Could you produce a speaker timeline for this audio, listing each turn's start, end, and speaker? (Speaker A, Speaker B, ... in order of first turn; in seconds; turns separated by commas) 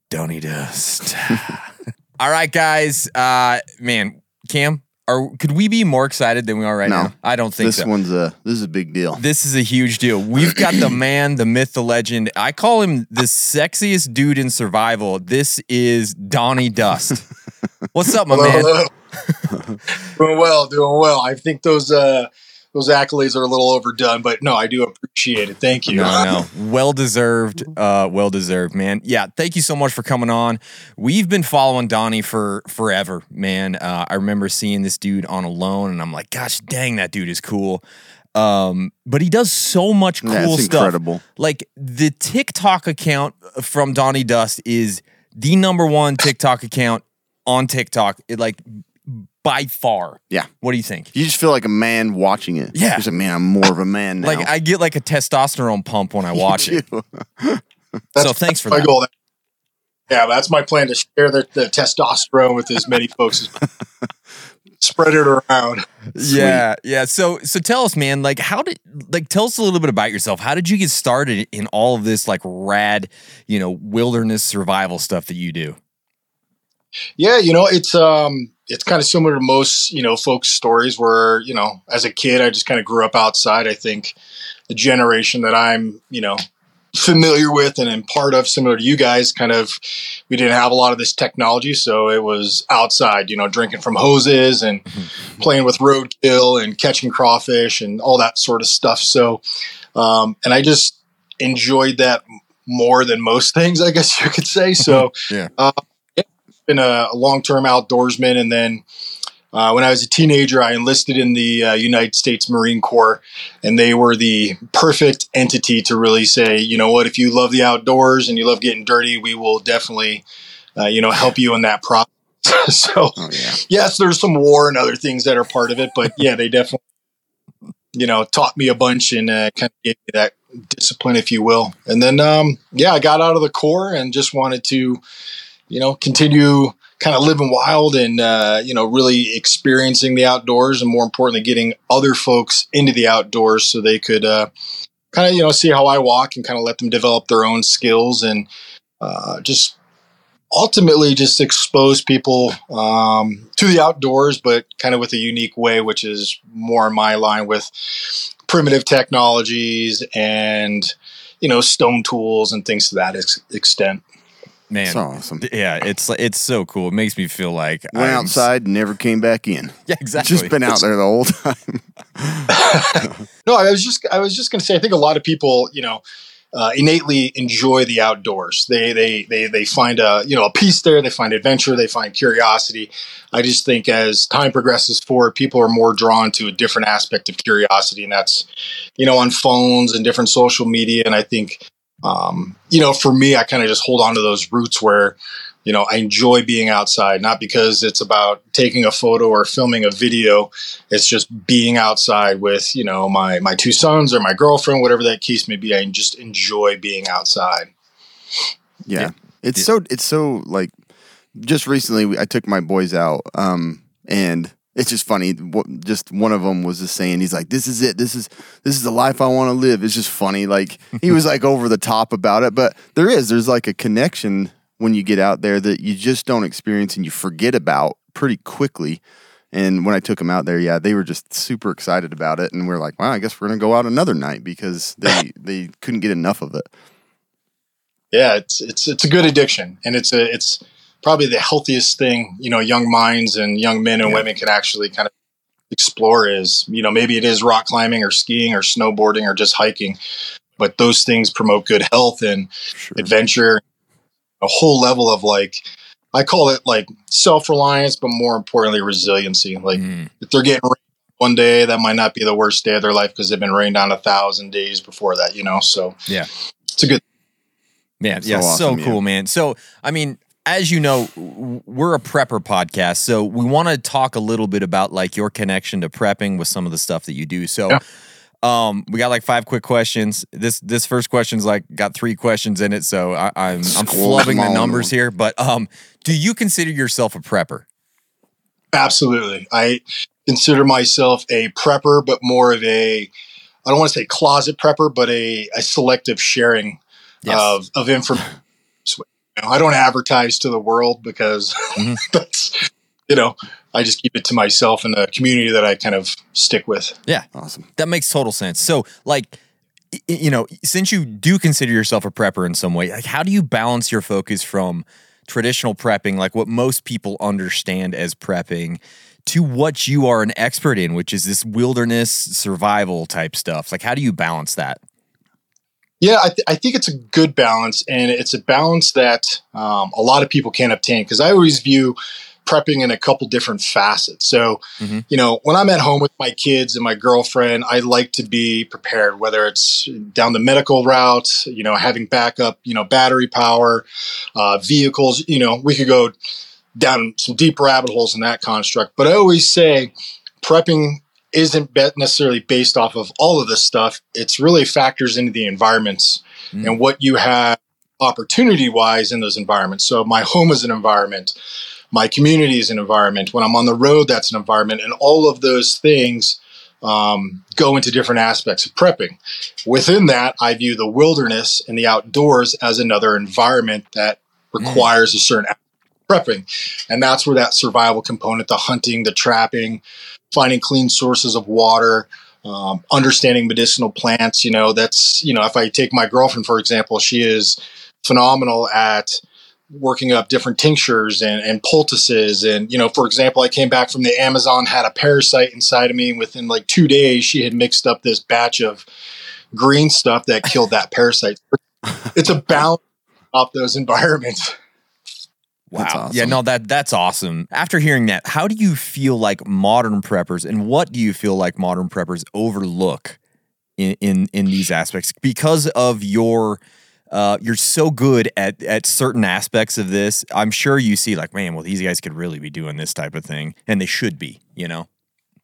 Speaker A: 0.1-7.9, Speaker B: 6.8-9.2, Speaker A: 9.2-17.2, Speaker A: 17.9-18.8, Speaker C: 18.3-18.9, Speaker C: 20.1-26.3, Speaker A: 25.9-37.8, Speaker B: 25.9-26.3, Speaker A: 38.4-51.1, Speaker B: 40.2-41.2, Speaker B: 51.1-54.5, Speaker A: 52.7-53.1, Speaker A: 54.2-56.8, Speaker B: 56.4-57.6, Speaker C: 58.2-59.1, Speaker A: 58.2-58.9, Speaker C: 60.1-63.6, Speaker C: 64.8-65.9, Speaker A: 66.2-75.8, Speaker B: 66.2-66.6, Speaker C: 77.2-84.2, Speaker C: 84.7-86.4, Speaker C: 86.9-99.4, Speaker C: 100.0-108.8, Speaker C: 109.5-120.2, Speaker C: 120.8-126.8, Speaker B: 123.2-123.6, Speaker C: 128.0-135.0, Speaker C: 135.7-144.5, Speaker C: 145.1-148.5, Speaker C: 149.0-149.8, Speaker C: 150.5-164.0, Speaker A: 164.7-168.4, Speaker B: 164.9-165.4, Speaker B: 167.9-173.1, Speaker A: 169.9-170.8, Speaker C: 172.5-176.0, Speaker C: 176.5-188.5, Speaker C: 189.0-207.7, Speaker B: 208.9-210.7, Speaker A: 209.0-209.7, Speaker B: 211.3-229.0, Speaker B: 229.5-236.7, Speaker C: 238.1-245.1, Speaker C: 245.7-250.0, Speaker C: 250.6-253.6, Speaker B: 252.8-253.1, Speaker C: 254.4-266.0, Speaker A: 259.8-260.1, Speaker C: 266.8-267.0, Speaker A: 268.0-277.8, Speaker B: 268.2-269.0, Speaker A: 278.4-287.6, Speaker B: 283.6-284.9, Speaker C: 288.7-293.1, Speaker C: 293.6-298.4, Speaker A: 297.2-297.5, Speaker C: 298.9-307.0, Speaker A: 307.1-309.4, Speaker B: 307.3-307.7, Speaker A: 309.9-324.8, Speaker C: 326.0-346.1, Speaker C: 346.8-349.9, Speaker C: 350.4-361.3, Speaker C: 361.9-375.6, Speaker A: 374.6-374.9, Speaker C: 376.1-379.8, Speaker C: 380.3-398.9, Speaker C: 399.5-402.8, Speaker C: 403.3-404.6, Speaker A: 405.7-413.2, Speaker B: 405.8-406.4, Speaker A: 413.8-416.6, Speaker A: 417.1-424.9